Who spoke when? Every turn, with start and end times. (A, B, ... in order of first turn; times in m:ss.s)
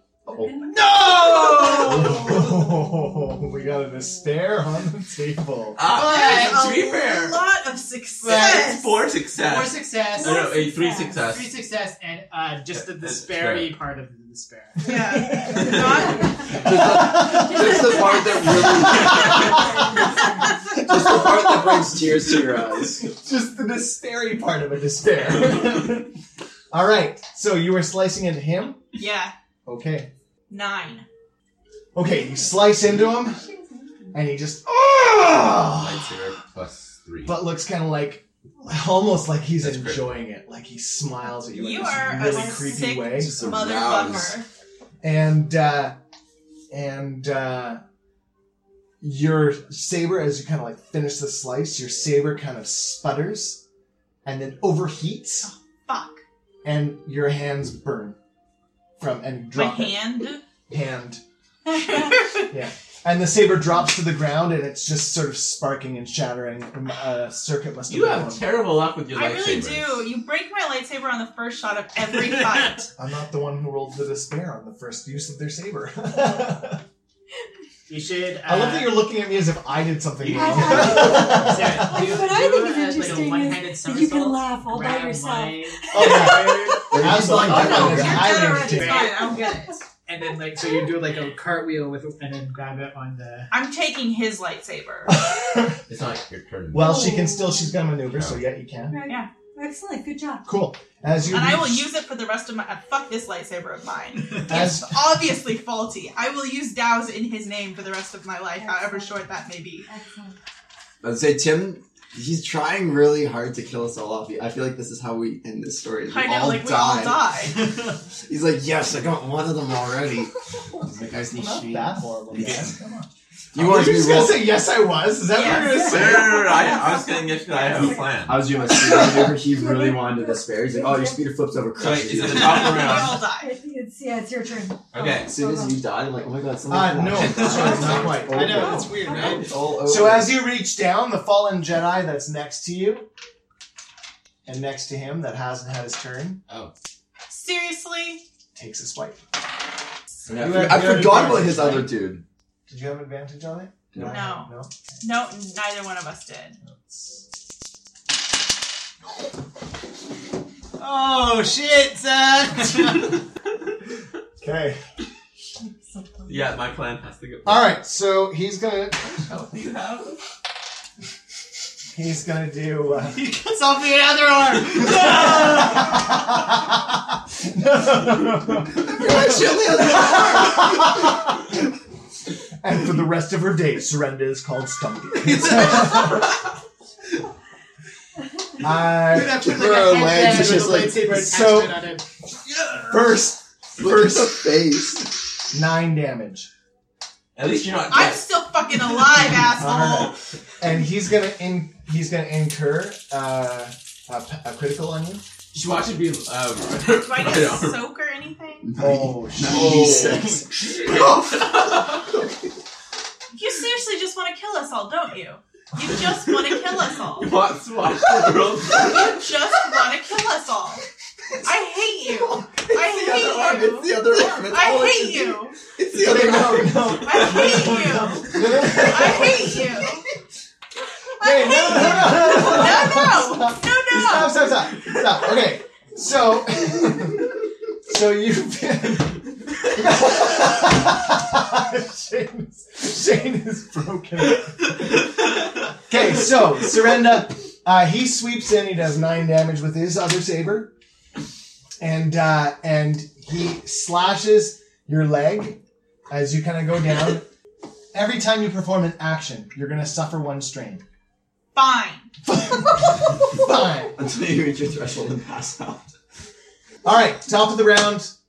0:00.3-0:00.8 A
0:00.6-0:02.3 B
0:01.4-0:02.2 A
0:01.8-0:05.8 C
0:05.8-0:07.4 D
0:05.8-0:06.6 E
0:05.9-0:08.9 B
0:08.2-0:08.8 E
0:08.2-0:11.5 D
0:09.4-0:10.5 E
0:10.2-0:11.2 A
0:11.2-0:15.0 E
0:12.8-0:13.7 D
0:14.8-0:16.4 B
0:15.4-0:20.8 A
0:15.5-0:16.1 D
0:16.5-0:19.7 F
0:16.7-0:17.9 C
0:18.7-0:20.0 C
0:20.6-0:26.1 C
0:20.7-0:23.0 F
0:26.7-0:28.8 C
0:29.0-0:29.3 B
0:29.7-0:30.1 C
0:30.5-0:31.1 B
0:32.0-0:33.4 C
0:32.1-0:34.2 A
0:34.1-0:36.1 C
0:35.6-0:37.4 D
0:37.2-0:44.1 C
0:39.6-0:40.0 D
0:41.5-0:44.5 B
0:41.9-0:42.8 A
0:43.0-0:44.4 F
0:45.0-0:46.0 C
0:46.7-0:47.8 C
0:49.0-0:53.6 C
0:54.2-0:55.5 C
0:55.4-0:56.2 B
0:56.6-0:58.2 C
0:59.0-1:00.0 C
0:59.5-1:00.4 B
1:00.7-1:01.2 C
1:01.7-1:02.5 B
1:02.5-1:08.5 C
1:07.9-1:10.1 D
1:09.1-1:12.9 B
1:13.0-1:16.8 C
1:17.9-1:19.0 E
1:18.5-1:22.2 C
1:20.2-1:21.2 D
1:20.3-1:29.8 A
1:20.7-1:26.0 E
1:25.9-1:29.1 C
1:26.9-1:28.4 F
1:27.6-1:28.0 E
1:27.9-1:29.8 B
1:28.6-1:29.1 E
1:30.1-1:33.5 E
1:33.5-1:35.2 B
1:35.1-1:35.8 C
1:35.9-1:37.0 D
1:36.7-1:39.0 C
1:36.7-1:37.8 A
1:38.1-1:38.4 D
1:38.9-1:40.5 A
1:40.5-1:41.9 C
1:41.3-1:49.9 B
1:44.4-1:45.1 C
1:48.6-1:49.2 A
1:49.8-1:50.4 A
1:51.0-1:57.3 F
1:56.1-1:57.6 B
1:58.2-2:02.7 F
2:01.3-2:06.5 C
2:03.5-2:04.5 F
2:05.3-2:06.0 B
2:05.6-2:11.3 A
2:05.8-2:08.4 D
2:08.2-2:12.8 F
2:11.8-2:13.2 D
2:12.5-2:13.5 B
2:12.7-2:15.8 A
2:14.9-2:15.3 D
2:15.2-2:20.4 F
2:16.7-2:18.9 C
2:17.2-2:18.0 D
2:17.4-2:19.4 E
2:18.6-2:19.4 A
2:19.8-2:23.1 C
2:24.5-2:26.4 C
2:27.3-2:28.2 B
2:28.6-2:29.3 C
2:30.3-2:32.0 C
2:30.3-2:32.2 F
2:32.7-2:34.7 C
2:33.9-2:34.2 F
2:34.1-2:36.6 B
2:36.6-2:37.2 C
2:40.8-2:43.2 E
2:44.4-2:44.8 C
2:45.6-2:46.4 A
2:46.3-2:47.7 D
2:47.4-2:49.2 C
2:49.0-2:50.2 D
2:51.9-2:53.2 C
2:53.0-2:56.0 E
2:55.0-2:56.7 C
2:57.3-3:01.3 C
2:58.8-3:01.0 F
3:02.6-3:06.3 C
3:08.6-3:09.4 C
3:09.1-3:12.0 E
3:09.1-3:11.0 F
3:10.5-3:11.8 C
3:12.4-3:14.4 C
3:13.8-3:15.1 F
3:15.5-3:16.5 C
3:17.4-3:18.3 D
3:17.9-3:20.2 B
3:19.4-3:25.2 C
3:25.5-3:27.8 D
3:27.0-3:28.7 B
3:28.6-3:32.5 F
3:28.8-3:30.5 C
3:29.4-3:32.2 D
3:33.3-3:37.3 B
3:37.2-3:39.2 D
3:38.7-3:40.8 B
3:41.4-3:45.6 B
3:42.1-3:47.2 F
3:45.9-3:49.6 C
3:47.0-3:50.1 B
3:51.2-3:54.5 B
3:51.2-3:57.3 C
3:57.9-4:05.0 C
4:05.9-4:10.7 C
4:11.8-4:17.3 C
4:17.9-4:20.8 C
4:21.6-4:22.1 B
4:22.2-4:24.0 C
4:23.9-4:25.9 F
4:26.8-4:28.1 C